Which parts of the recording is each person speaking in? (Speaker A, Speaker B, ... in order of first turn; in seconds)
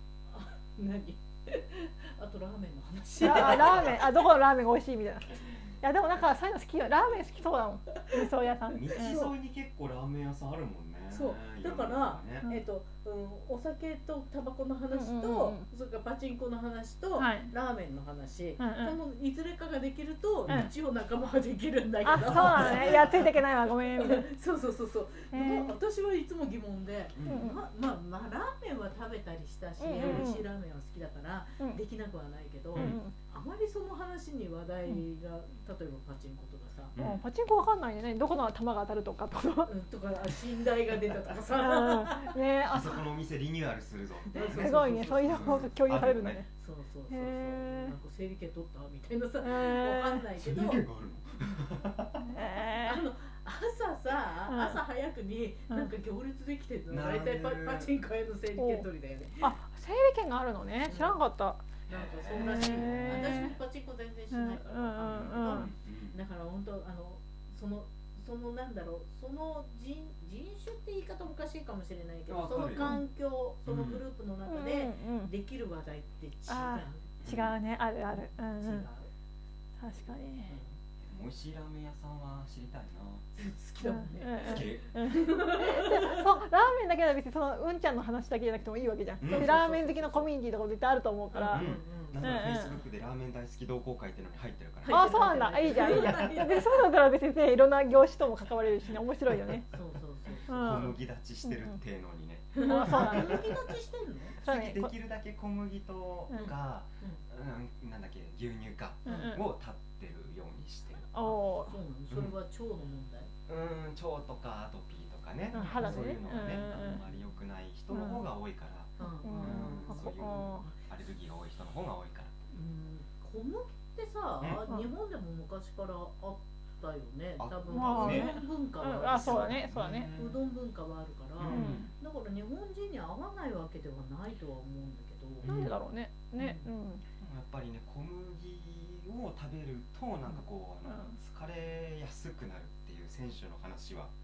Speaker A: 0.3-4.2, 8.0-8.3, 8.9-9.3, 11.1-23.4, 24.0-37.0, 39.7-42.4, 44.3-45.7, 46.5-50.8, 52.8-59.6, 60.9-61.2, 61.9-77.2, 78.6-79.1, 80.5-80.7, 83.3-86.3, 89.2-90.3, 91.3-92.5, 94.8-96.9, 99.7-100.9, 102.5-104.4, 106.3-107.2, 109.1-109.4, 111.2-113.3, 115.5-116.3, 119.0-120.8, 122.5-135.5, 136.4-136.7
Speaker B: 3.2-9.3, 14.9-15.7, 17.2-17.5, 18.6-19.0, 22.1-24.3, 25.3-25.8, 27.3-27.6, 29.8-30.4, 32.8-33.1, 37.0-39.7, 41.6-43.0, 44.4-46.5, 47.1-48.0, 49.4-50.2, 52.3-53.0, 54.5-54.8, 58.6-58.9, 59.4-61.7, 62.3-63.6, 64.3-65.7, 72.8-73.0, 74.5-75.3, 76.5-78.9, 79.8-80.6, 83.8-92.8, 94.9-99.7, 100.5-101.8, 102.6-103.5, 104.4-104.9, 109.1-109.4, 111.1-111.8, 115.5-117.0, 117.9-118.3, 119.2-120.7, 127.7-130.1, 131.5-131.9, 135.4-137.0, 140.9-141.2
Speaker C: 3.3-3.9, 8.7-12.5, 20.5-20.7, 22.2-23.2, 27.1-27.5, 30.0-30.3, 37.0-37.2, 42.6-46.4, 50.4-52.3, 56.9-57.9, 61.9-63.5, 65.0-66.2, 72.3-73.0, 73.7-74.0, 77.2-77.6, 81.0-83.3, 84.4-85.0, 89.2-89.6, 91.5-96.5, 99.3-99.6, 100.5-103.7, 104.4-111.1, 113.5-122.3, 127.4-128.4, 129.1-130.4, 131.4-131.9, 135.4-135.8, 137.2-144.1